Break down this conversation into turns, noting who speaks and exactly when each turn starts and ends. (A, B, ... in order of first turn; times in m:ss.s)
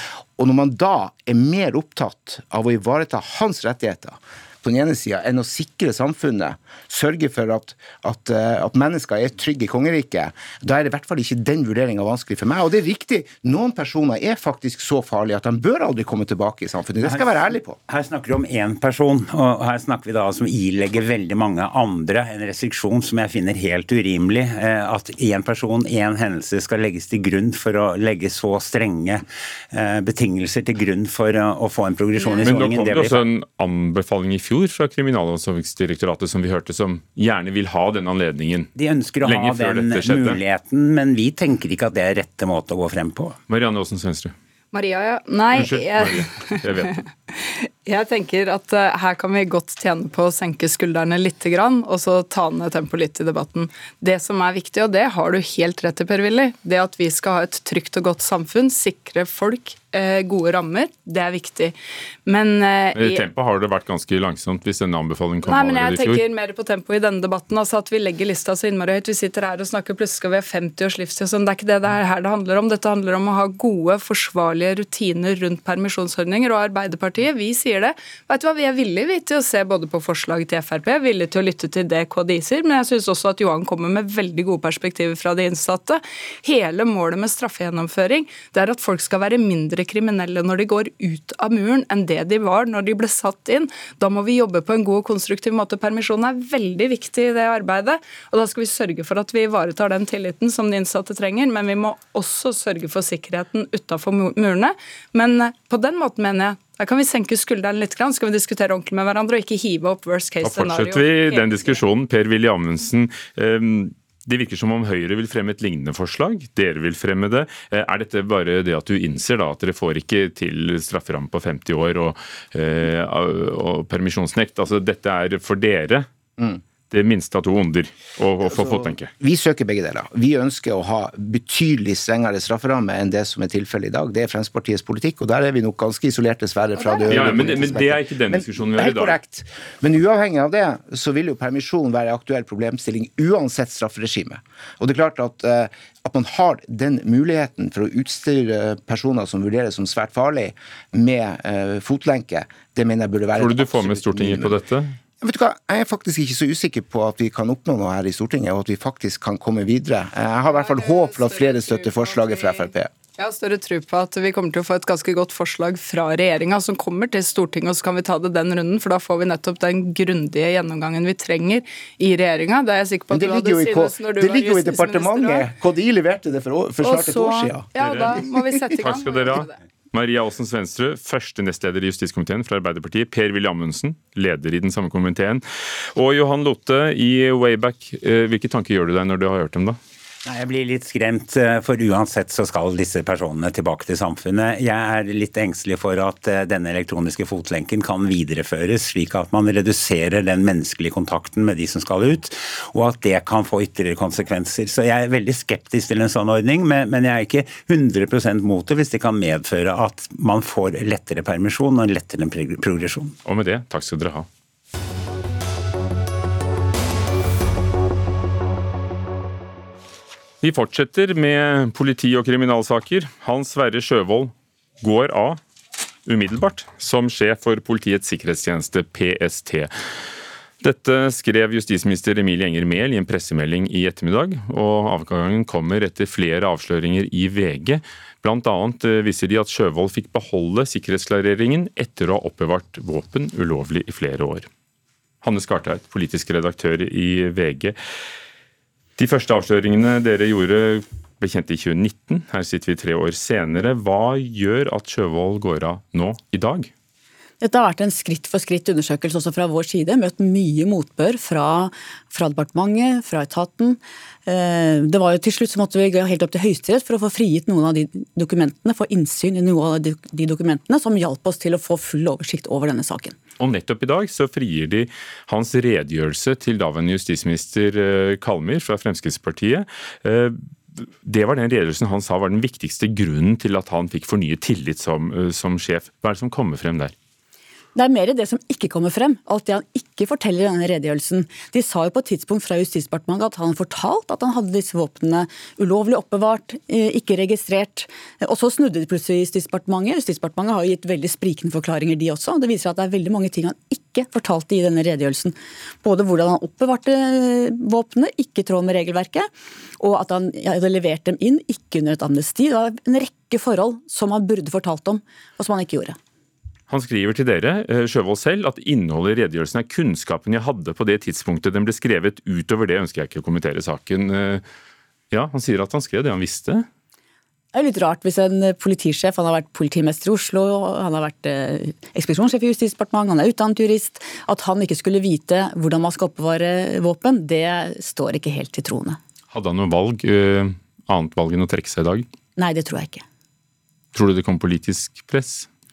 0:00.4-0:17.8 A
0:17.0-0:33.3 B
0:32.4-0:38.7 C
0:38.8-0:43.4 B
0:39.2-0:40.4 C
0:43.5-0:44.3 C
0:44.7-1:01.8 D
0:45.5-0:47.0 C
1:02.3-1:03.2 D
1:03.0-1:06.2 C
1:05.4-1:51.8 D
1:50.4-2:06.1 C
2:06.9-2:09.1 C
2:08.5-2:34.6 A
2:16.8-2:17.7 D
2:17.1-2:19.2 C
2:33.4-2:35.0 C
2:35.2-2:42.9 A
2:40.4-2:55.5 D
2:53.1-2:57.7 A
2:56.8-2:59.5 D
2:57.8-2:58.2 C
2:58.8-3:09.8 C
3:10.2-3:33.2 B
3:33.2-3:34.3 C
3:40.4-3:45.4 C
3:46.1-3:49.7 C
3:50.6-4:04.5 C
4:05.2-4:07.8 C
4:09.0-4:16.7 C
4:17.4-4:33.2 E
4:33.4-4:46.9 C
4:47.8-5:16.0 E
5:16.7-5:24.4 C
5:25.1-5:26.7 C
5:27.5-5:39.0 E
5:39.3-5:42.1 C
5:42.4-5:43.0 E
5:43.9-5:45.5 C